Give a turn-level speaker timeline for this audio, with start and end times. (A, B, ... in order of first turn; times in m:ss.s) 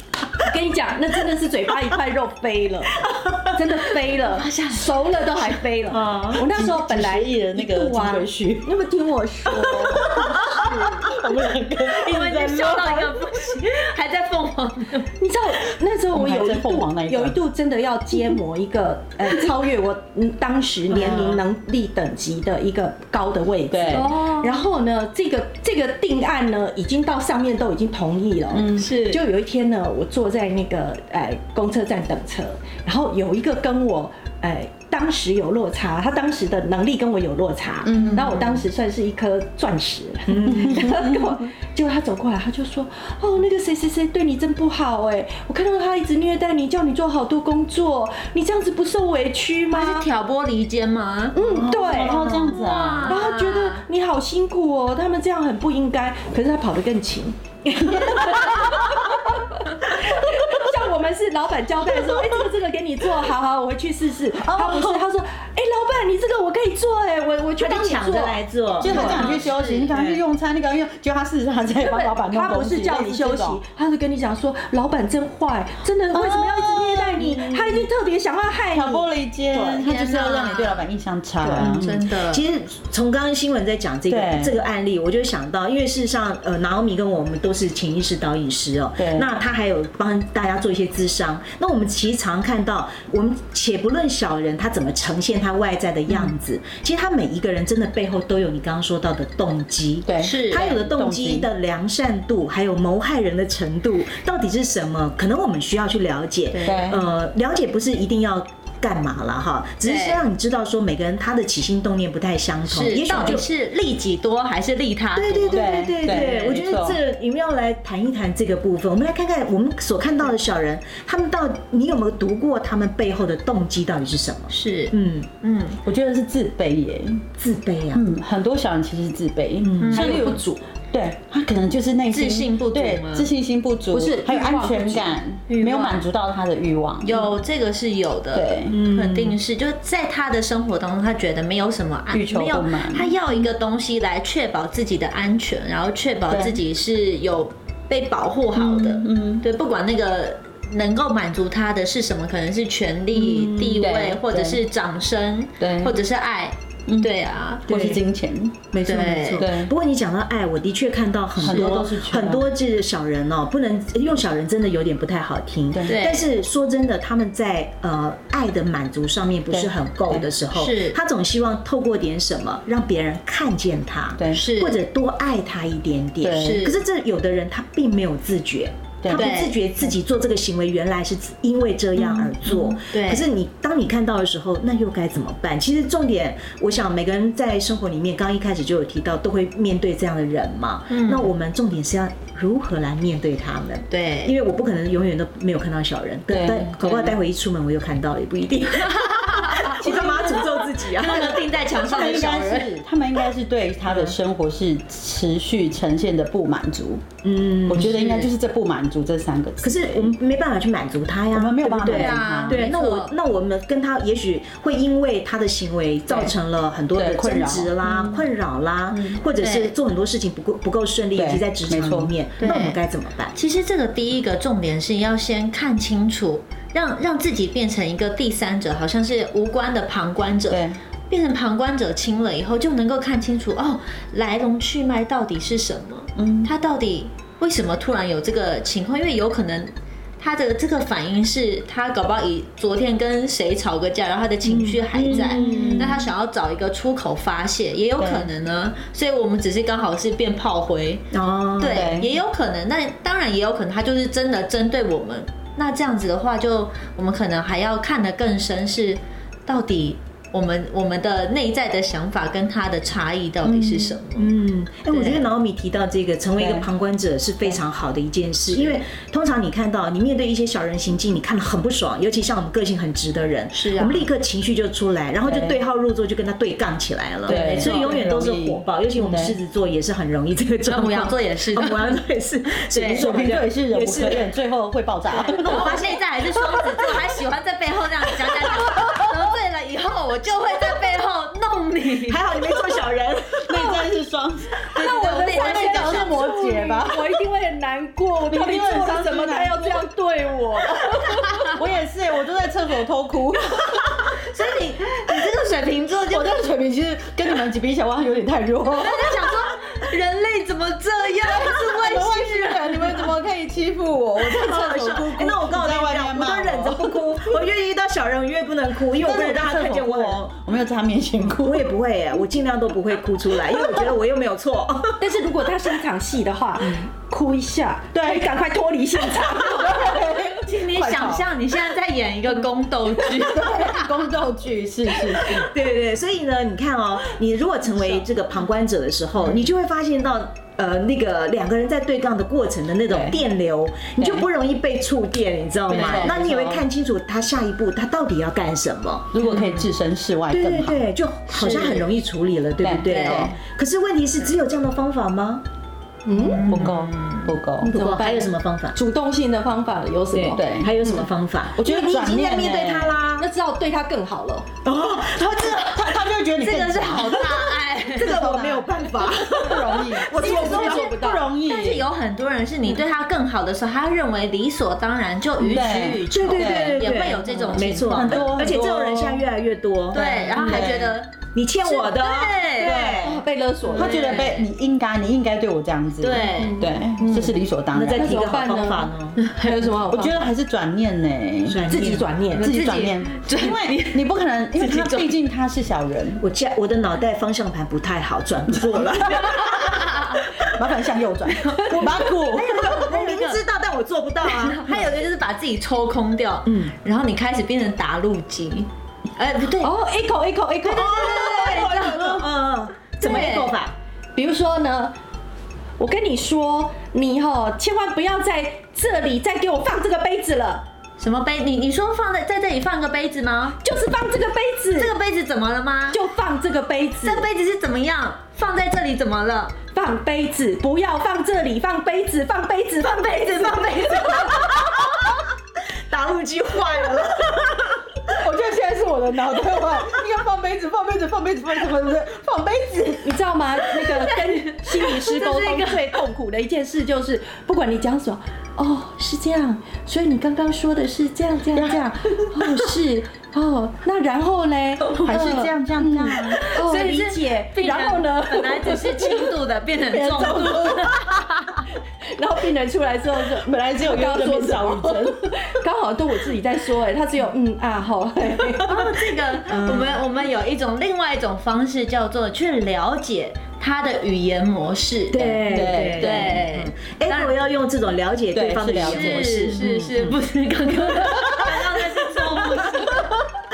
0:00.4-0:11.0 A
0:04.2-0:05.0 B
0:05.9-0:06.4 C
0:06.5-0:08.7 D
0:09.8-0:13.1 D
0:11.9-0:15.1 B
0:15.2-0:50.1 A
0:16.1-0:17.4 D
0:20.9-0:21.4 D
0:20.9-0:21.4 B
0:23.7-0:24.2 D
0:28.5-0:28.9 D
0:28.7-0:29.2 B
0:37.8-0:38.5 D
0:40.3-0:40.7 C
0:49.7-0:51.4 B
0:51.4-0:52.2 A
0:51.5-0:52.6 C
0:51.6-0:53.2 D
0:52.2-0:53.8 B
0:53.0-1:09.4 A
0:57.7-0:59.0 C
1:04.4-1:05.0 D
1:07.6-1:10.2 C
1:08.8-1:13.6 D
1:08.8-1:10.0 B
1:11.7-1:19.8 A
1:16.1-1:17.4 D
1:17.2-1:17.8 C
1:18.7-1:22.0 D
1:19.6-1:20.8 B
1:21.4-1:22.4 B
1:21.5-1:53.4 C
1:24.1-1:24.6 D
1:29.0-1:29.3 D
1:40.1-1:41.5 D
1:40.2-1:40.8 B
1:46.5-1:46.9 B
1:46.6-1:47.0 D
1:49.8-1:50.2 B
1:52.7-1:56.5 B
1:55.2-2:05.3 C
1:55.5-1:57.0 D
2:04.5-2:05.8 B
2:05.8-2:07.2 D
2:07.4-2:08.0 C
2:07.9-2:17.3 D
2:09.6-2:10.2 C
2:09.8-2:10.3 B
2:09.9-2:10.6 A
2:12.1-2:13.3 B
2:13.9-2:15.1 A
2:15.5-2:16.0 B
2:17.0-2:37.7 B
2:18.3-2:18.8 D
2:18.7-2:19.4 C
2:22.1-2:23.1 D
2:26.3-2:26.6 D
2:28.6-2:29.4 D
2:33.1-2:33.9 C
2:33.8-2:34.6 D
2:35.6-2:36.0 D
2:36.9-2:37.1 D
2:37.7-2:38.0 C
2:37.7-2:38.6 D
2:38.7-3:21.4 C
2:38.8-2:39.5 B
2:39.4-2:39.7 D
2:41.4-2:42.5 D
2:41.4-2:41.8 B
2:45.8-2:46.3 B
2:49.5-2:50.3 D
2:50.5-2:51.0 B
2:54.3-2:54.8 B
2:56.2-2:56.6 D
2:56.4-2:56.8 B
2:59.0-2:59.3 D
2:59.1-2:59.6 B
3:02.0-3:03.2 B
3:10.9-3:11.3 B
3:13.9-3:14.4 B
3:16.3-3:17.1 D
3:16.5-3:17.0 B
3:19.0-3:22.7 B
3:19.8-3:20.4 D
3:20.0-3:20.4 A
3:21.7-3:27.0 D
3:23.9-3:24.2 C
3:27.2-3:28.0 C
3:27.7-3:30.1 D
3:27.8-3:28.3 B
3:29.6-3:43.4 C
3:31.3-3:32.7 D
3:31.8-3:33.1 B
3:36.9-3:38.2 D
3:38.9-3:39.2 D
3:39.4-3:39.8 B
3:41.1-3:42.1 D
3:42.4-3:42.8 B
3:43.3-4:11.0 B
3:50.5-3:50.8 D
3:56.2-3:56.5 D
4:04.4-4:06.0 C
4:05.0-4:06.1 D
4:08.0-4:08.3 D
4:11.1-4:11.9 C
4:11.6-4:24.3 B
4:11.7-4:12.1 D
4:23.4-4:24.0 D
4:24.2-4:44.3 C
4:24.9-4:25.3 B
4:26.4-4:26.7 D
4:28.5-4:28.8 B
4:33.5-4:34.1 B
4:35.2-4:35.6 D
4:37.2-4:38.1 B
4:37.3-4:39.4 D
4:40.6-4:42.0 B
4:42.7-4:43.1 B
4:42.9-4:45.8 D
4:45.2-4:46.0 C
4:45.4-4:52.2 B
4:52.1-4:53.5 C
4:53.5-4:57.1 D
4:53.5-4:53.8 A
4:54.7-4:56.2 B
4:54.7-5:01.2 A
4:58.3-4:59.8 D
5:01.5-5:03.8 D
5:04.3-5:06.5 B
5:06.1-5:09.1 D
5:08.8-5:13.1 B
5:11.2-5:17.0 D
5:14.2-5:20.3 C
5:18.9-5:21.7 D
5:21.4-5:25.1 C
5:25.0-5:29.7 A
5:27.9-5:28.3 D
5:29.1-5:31.3 D
5:30.4-5:33.8 B
5:33.0-5:35.5 D
5:35.4-5:49.1 C
5:42.9-5:43.2 D
5:44.0-5:44.2 D
5:45.7-5:46.2 B
5:45.7-5:46.6 D
5:49.1-5:50.9 D
5:49.2-5:49.7 B
5:50.3-5:55.4 C
5:51.3-5:51.9 B
5:52.6-5:53.4 D
5:52.9-5:53.3 B
5:56.0-5:56.5 A
5:56.2-5:57.4 B
5:56.5-5:57.7 D
5:57.6-6:01.0 A
5:57.7-5:58.8 C
6:00.1-6:00.7 D
6:00.1-6:03.3 C
6:01.6-6:03.0 D
6:03.2-6:04.5 A
6:04.6-6:05.8 C
6:05.5-6:07.4 D
6:06.4-6:08.2 B
6:08.0-6:08.7 D
6:08.0-6:10.9 C
6:09.4-6:11.9 D
6:10.1-6:11.3 A
6:11.4-6:18.4 B
6:15.4-6:23.2 C
6:15.4-6:19.2 D
6:19.9-6:22.9 B
6:20.3-6:21.0 D
6:22.6-6:24.3 A
6:23.7-6:28.2 D
6:23.8-6:24.5 B
6:26.0-6:27.4 B
6:26.4-6:26.7 A
6:27.7-6:29.2 C
6:27.9-6:30.3 A
6:29.2-6:29.5 B
6:29.9-6:31.8 D
6:31.5-6:32.1 C
6:31.7-6:32.5 A
6:32.3-6:36.2 D
6:32.4-6:35.1 B
6:36.2-6:39.8 C
6:38.5-6:39.5 D
6:39.6-6:40.2 B
6:40.4-6:42.6 D
6:41.5-6:41.8 B
6:41.7-6:44.9 C
6:42.4-6:43.4 B
6:44.2-6:49.7 B
6:46.5-6:46.7 C
6:49.6-6:52.3 A
6:50.6-6:53.7 C
6:50.9-6:52.2 B
6:53.0-6:53.5 B
6:54.2-6:54.9 A
6:55.8-7:00.6 A
7:01.0-7:03.6 B
7:03.6-7:04.9 A
7:04.8-7:06.0 B
7:05.9-7:07.3 A
7:07.0-7:09.6 B
7:09.7-7:14.8 A
7:12.8-7:14.2 B
7:15.9-7:17.7 C
7:18.2-7:19.2 A
7:18.2-7:23.2 D
7:23.0-7:41.2 A
7:24.0-7:25.9 B
7:31.6-7:32.6 D
7:35.0-7:36.4 D
7:36.4-7:41.5 B
7:42.2-7:48.8 A
7:43.4-7:45.2 D
7:48.6-7:57.4 B
7:49.5-7:50.0 C
7:55.1-8:00.2 C
7:55.4-7:56.4 D
7:58.3-7:59.9 D
7:58.8-8:03.0 B